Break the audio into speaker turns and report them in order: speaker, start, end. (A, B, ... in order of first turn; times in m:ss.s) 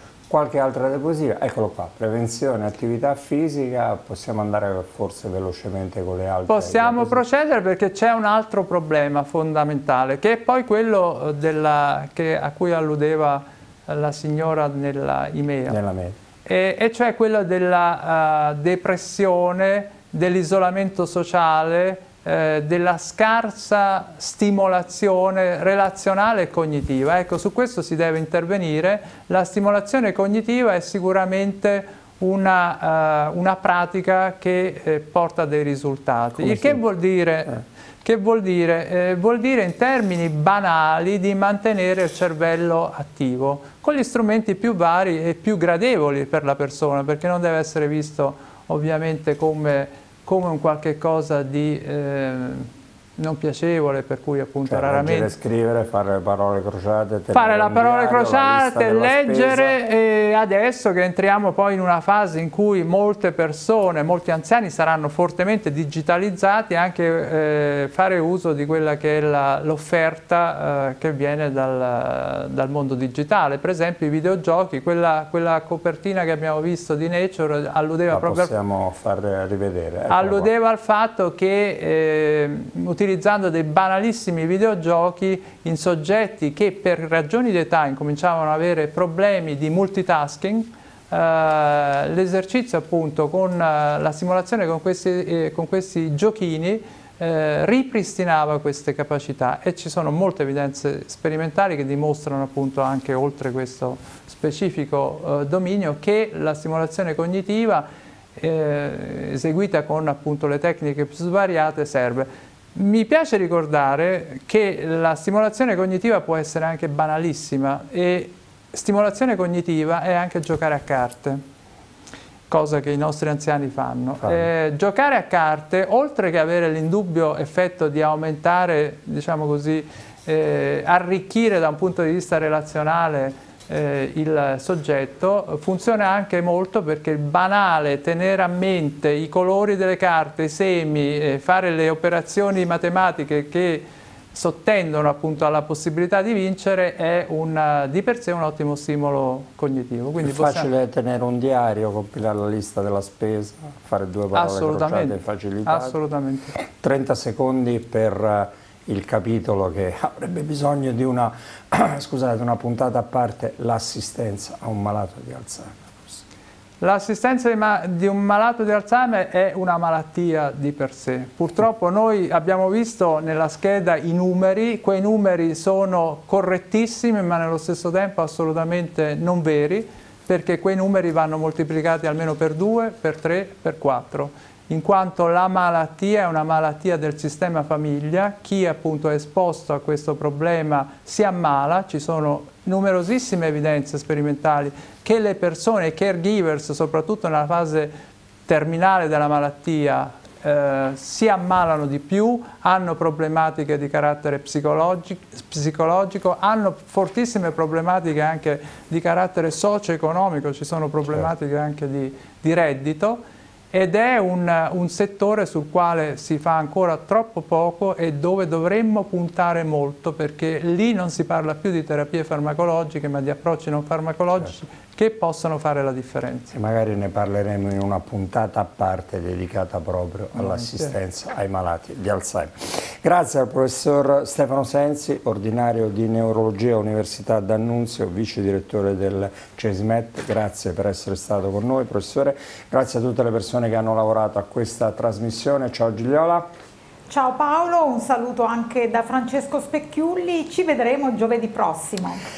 0:00.3-0:07.2 A
0:06.5-0:15.8 B
0:15.7-0:16.2 A
0:16.4-0:55.3 B
0:36.4-0:36.8 A
0:54.7-0:59.8 A
0:57.3-1:18.5 B
1:18.1-1:20.5 A
1:20.1-2:01.4 B
2:02.5-2:30.7 B
2:30.2-2:36.0 A
2:34.3-2:36.5 B
2:36.6-2:46.2 A
2:46.8-3:17.9 B
3:18.5-3:46.5 B
3:46.5-4:06.5 A
3:50.4-3:50.8 B
4:07.1-4:12.2 C